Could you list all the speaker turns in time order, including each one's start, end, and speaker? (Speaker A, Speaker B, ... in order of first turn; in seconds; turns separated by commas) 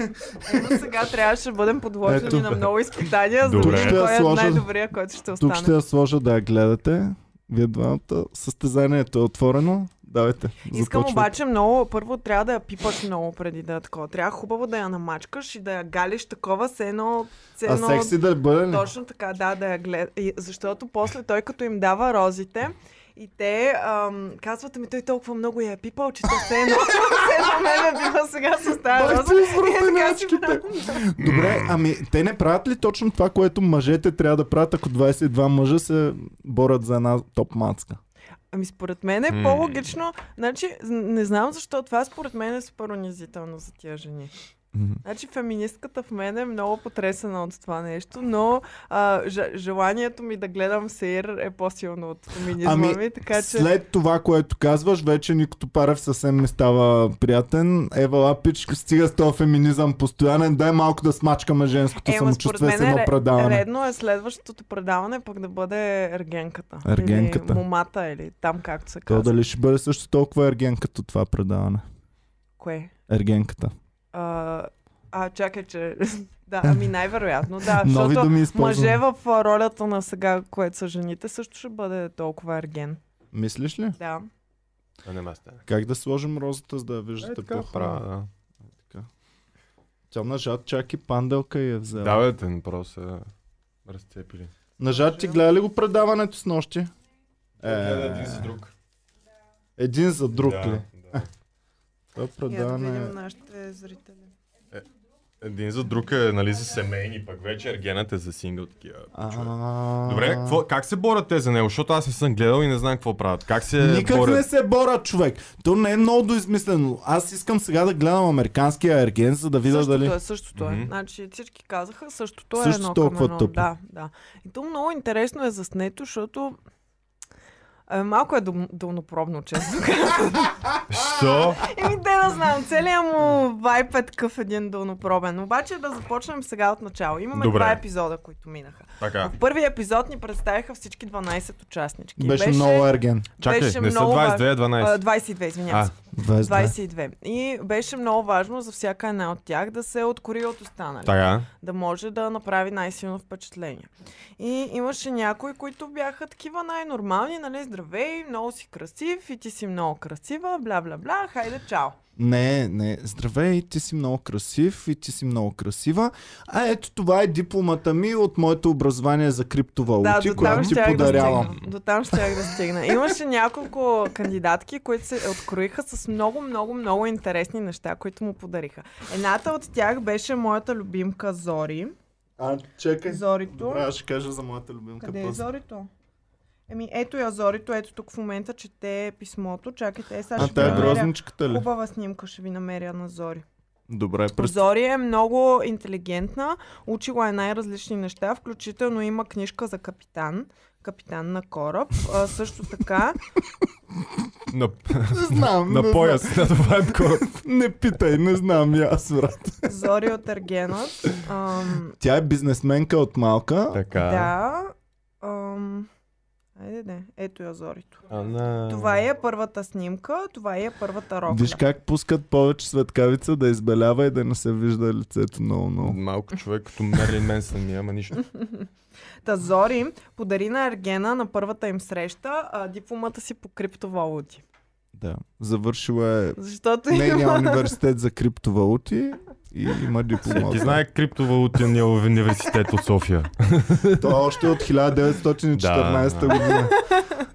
Speaker A: 0.4-5.7, Speaker B: 2.0-2.7, Speaker C: 3.5-4.0, Speaker B: 3.6-4.7, Speaker B: 5.4-11.3, Speaker A: 10.7-31.1, Speaker B: 17.6-18.9, Speaker B: 28.9-38.0, Speaker C: 31.2-31.7, Speaker A: 38.5-44.3, Speaker C: 39.3-39.9, Speaker B: 44.7-45.0, Speaker A: 45.0-53.7, Speaker B: 52.6-63.7, Speaker A: 62.0-69.3, Speaker B: 66.8-67.7, Speaker B: 69.1-71.8, Speaker A: 72.6-72.9, Speaker B: 73.1-73.7, Speaker A: 74.1-83.0, Speaker B: 76.6-76.9, Speaker B: 77.6-79.0, Speaker B: 83.3-84.0, Speaker A: 84.0-84.3, Speaker C: 85.0-85.7, Speaker B: 85.7-88.0, Speaker C: 87.2-88.3, Speaker B: 88.8-89.1, Speaker B: 90.1-92.2, Speaker C: 92.0-93.3, Speaker C: 93.9-94.5, Speaker B: 94.8-96.9, Speaker B: 97.6-98.5, Speaker C: 97.6-98.7, Speaker B: 99.8-101.2, Speaker C: 100.4-101.2, Speaker B: 102.2-103.2, Speaker A: 102.5-104.3, Speaker C: 105.4-109.5, Speaker B: 109.1-110.6, Speaker C: 110.0-114.5, Speaker B: 113.8-120.2, Speaker A: 119.7-126.6, Speaker C: 120.6-120.9, Speaker B: 122.5-123.7, Speaker A: 127.9-130.6, Speaker C: 130.9-131.7, Speaker A: 131.4-162.0, Speaker C: 137.3-137.8, Speaker C: 139.0-139.3, Speaker B: 142.2-143.3, Speaker C: 143.4-145.0, Speaker B: 146.1-146.8, Speaker C: 151.1-151.5, Speaker B: 162.2-171.6, Speaker A: 170.0-182.0, Speaker C: 170.4-171.7, Speaker B: 182.4-185.5, Speaker A: 183.1-183.9, Speaker A: 185.0-185.9, Speaker A: 186.7-193.4, Speaker B: 190.4-191.7, Speaker C: 190.4-191.0, Speaker B: 193.9-194.6, Speaker A: 194.4-203.2, Speaker C: 204.5-207.3, Speaker B: 205.1-209.7, Speaker A: 209.7-212.0, Speaker B: 212.0-213.8, Speaker C: 213.7-214.3, Speaker A: 214.0-215.9, Speaker A: 216.6-218.1, Speaker C: 218.1-219.0, Speaker A: 218.7-221.6, Speaker B: 221.3-226.0, Speaker C: 225.8-228.3, Speaker A: 228.3-228.7, Speaker A: 229.2-234.4, Speaker B: 234.9-236.4, Speaker A: 236.4-237.7, Speaker B: 236.9-240.8, Speaker C: 240.3-244.1, Speaker B: 244.0-246.8, Speaker C: 245.6-246.6, Speaker A: 246.5-247.3